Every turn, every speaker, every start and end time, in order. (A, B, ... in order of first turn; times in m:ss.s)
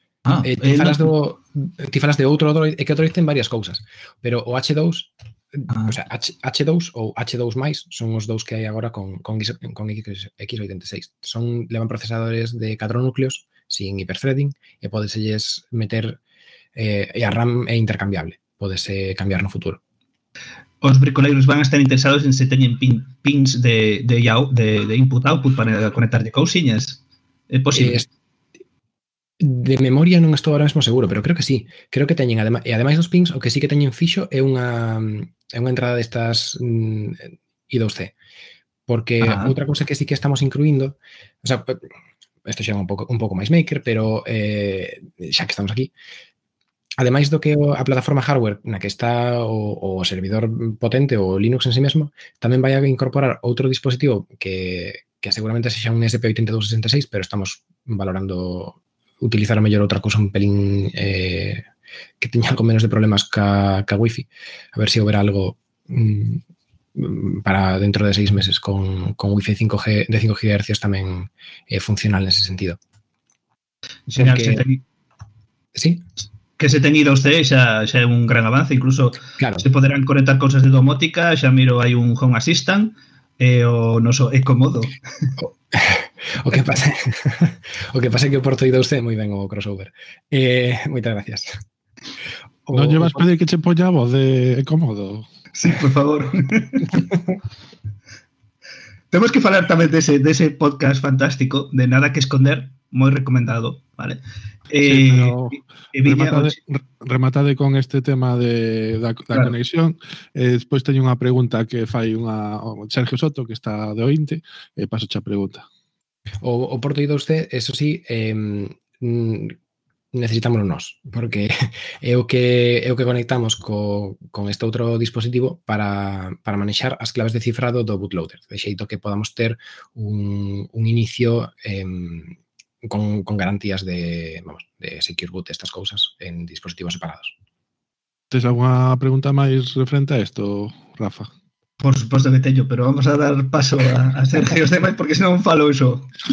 0:00.2-0:01.1 A
0:00.4-0:16.2 B
0:05.7-0:06.0 A
0:16.7-0:19.8 B
0:20.8-0:28.0 A
0:27.7-0:28.1 B
0:29.4-0:38.1 B
0:38.9-0:41.8 B
0:39.2-0:39.5 A
0:42.4-0:45.9 B
0:47.0-1:01.6 B
1:02.2-1:06.4 B
1:06.9-1:12.8 B
1:14.1-1:14.8 A
1:14.2-1:14.6 B
1:15.7-1:16.0 B
1:16.6-1:24.9 A
1:19.4-1:19.6 B
1:25.4-1:31.6 B
1:32.7-1:33.2 B
1:32.7-1:35.3 C
1:35.5-1:37.1 A
1:39.1-1:46.6 A
1:44.8-1:55.6 C
1:56.4-1:59.6 B
2:00.1-2:17.3 B
2:18.3-2:21.3 C
2:21.8-2:26.1 A